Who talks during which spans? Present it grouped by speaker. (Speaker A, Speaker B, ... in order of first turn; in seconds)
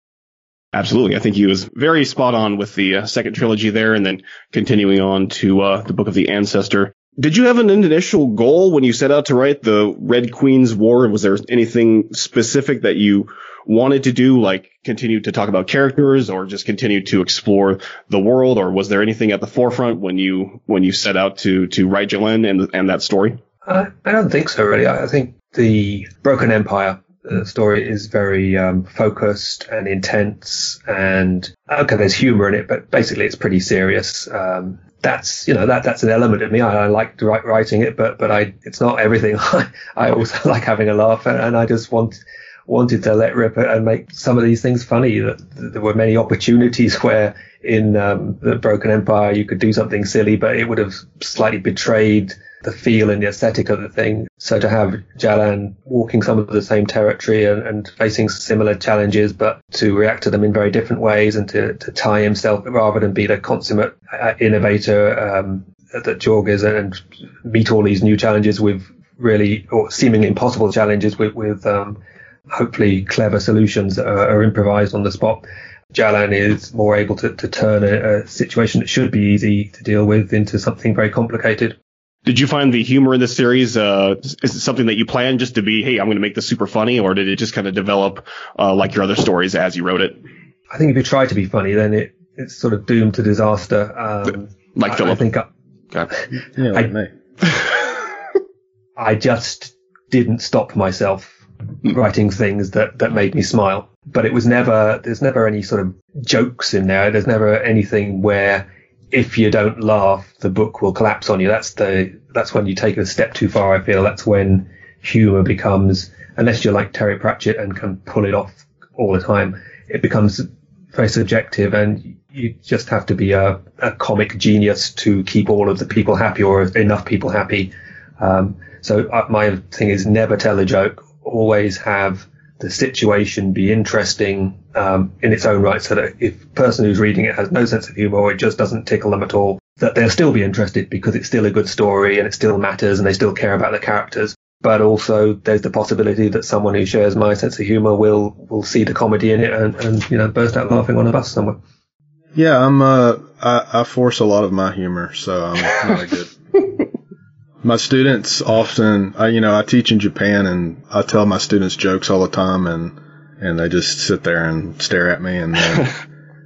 Speaker A: 0.7-23.4, 82.3-90.2, 94.8-95.2
Speaker B: 23.7-72.0, 72.5-81.8, 90.7-95.5, 99.0-151.6
Speaker C: 96.5-97.1, 152.3-156.3, 157.6-166.0